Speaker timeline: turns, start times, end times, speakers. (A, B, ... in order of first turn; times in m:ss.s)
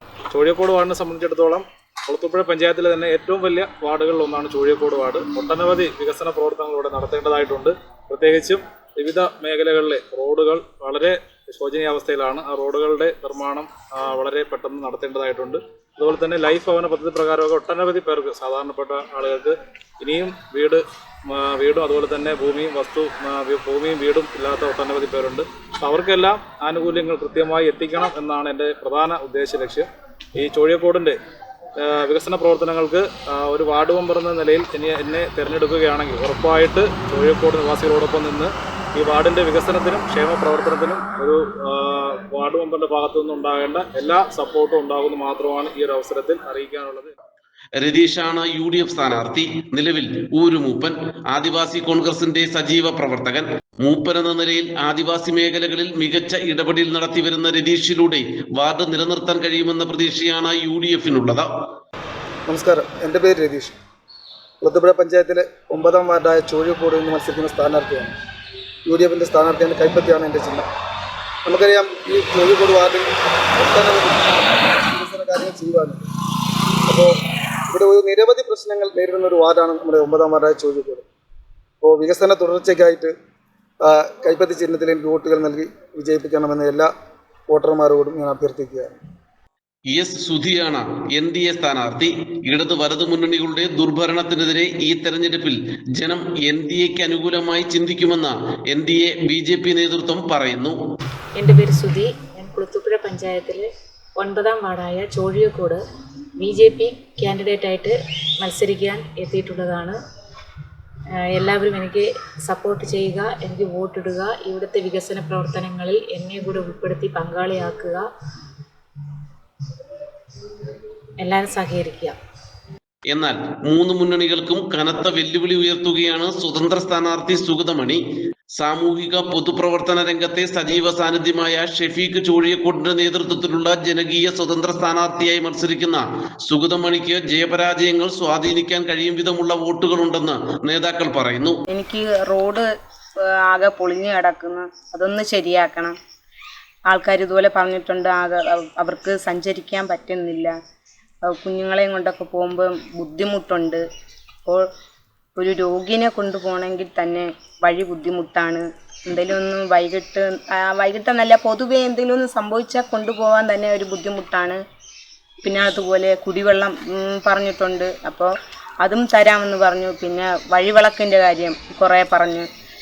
0:00.3-0:31.2 A
0:31.8-0:47.1 A
0:47.8-1:01.5 B
1:02.5-1:03.8 C
1:04.6-1:08.2 C
1:08.9-1:10.7 C
1:11.4-1:16.0 C
1:16.9-1:17.2 C
1:17.7-1:21.1 C
1:21.8-1:23.2 C
1:23.8-1:26.9 C
1:27.5-1:28.9 C
1:29.9-1:40.8 B
1:41.4-1:45.8 D
1:46.4-1:50.0 D
1:51.2-1:58.1 D
2:01.2-2:02.2 D
2:03.1-2:08.0 B
2:08.6-2:21.6 B
2:21.7-2:22.7 E
2:23.5-2:26.0 E
2:26.9-2:30.6 E
2:31.3-2:33.8 E
2:35.4-2:44.6 E
2:45.4-2:52.5 E